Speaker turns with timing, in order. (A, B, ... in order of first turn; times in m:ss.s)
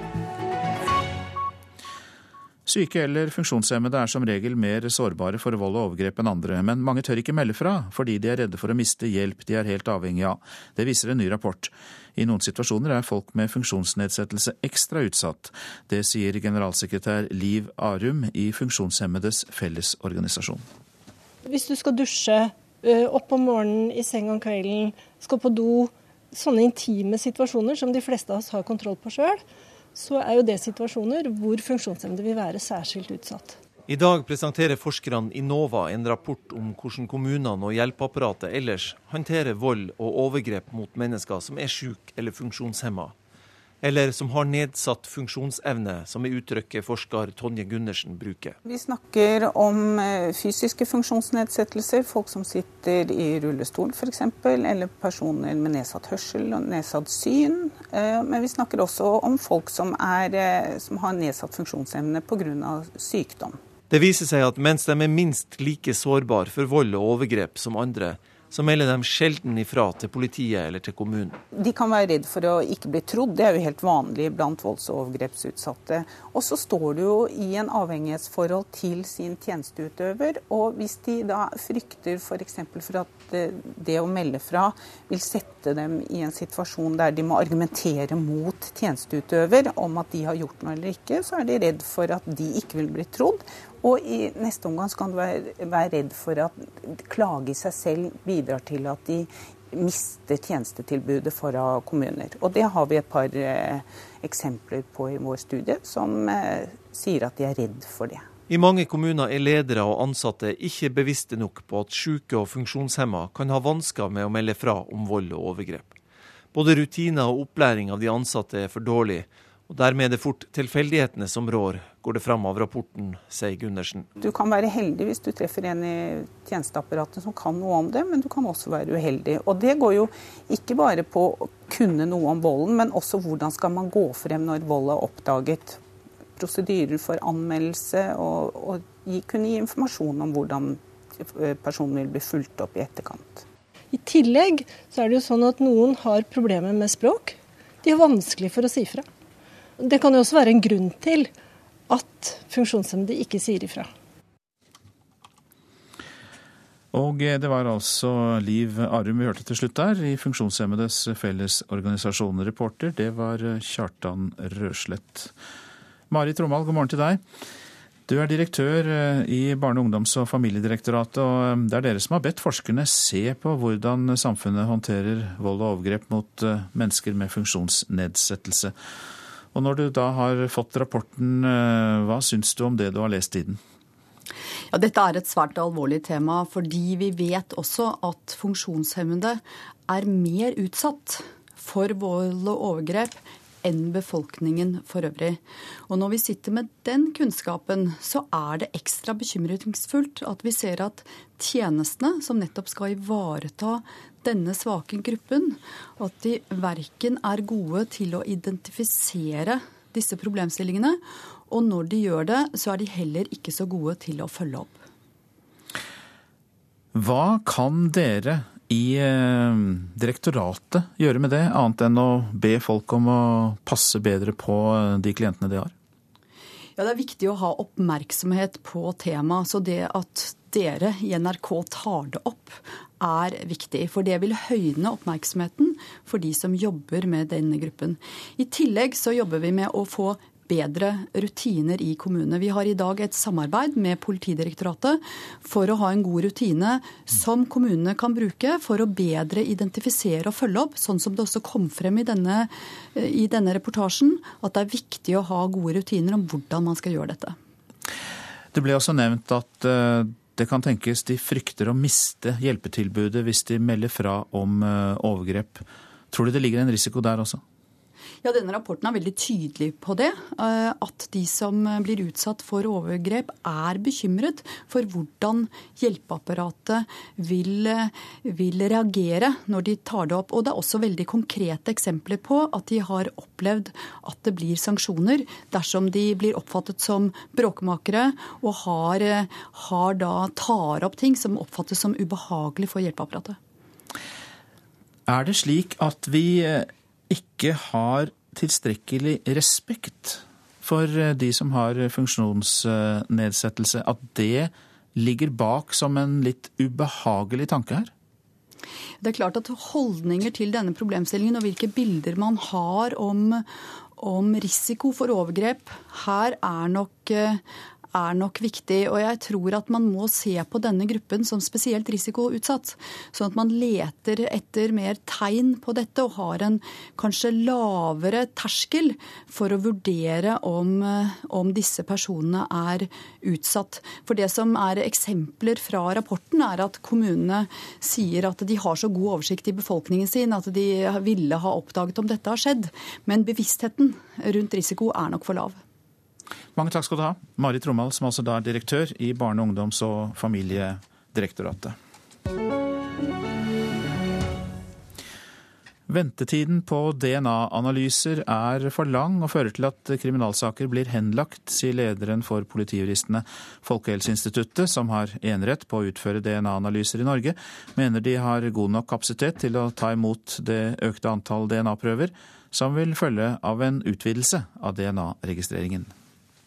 0:02.6-0:20.6 A
0:21.4-0:29.4 B
0:29.9-0:33.6 B
0:33.9-0:43.1 C
0:43.8-0:48.6 C
0:48.6-1:03.6 D
1:03.9-1:11.4 C
1:11.5-1:48.3 D
1:48.5-1:56.0 C
1:56.5-2:04.1 C
2:04.2-2:15.8 D
2:16.4-2:23.4 D
2:23.9-2:29.1 B
2:29.8-2:31.3 B
2:31.9-2:33.9 B
2:36.9-2:45.3 A
2:46.1-2:47.2 A
2:48.1-2:58.7 A
2:59.5-3:03.6 A
3:04.7-3:34.8 E
3:36.9-3:45.7 A
3:46.8-4:17.4 E
4:18.5-4:27.4 A
4:28.2-4:53.4 E
4:55.1-5:07.9 A
5:09.0-5:17.4 E
5:17.9-5:45.6 E
5:46.6-5:51.7 A
5:55.9-6:15.9 A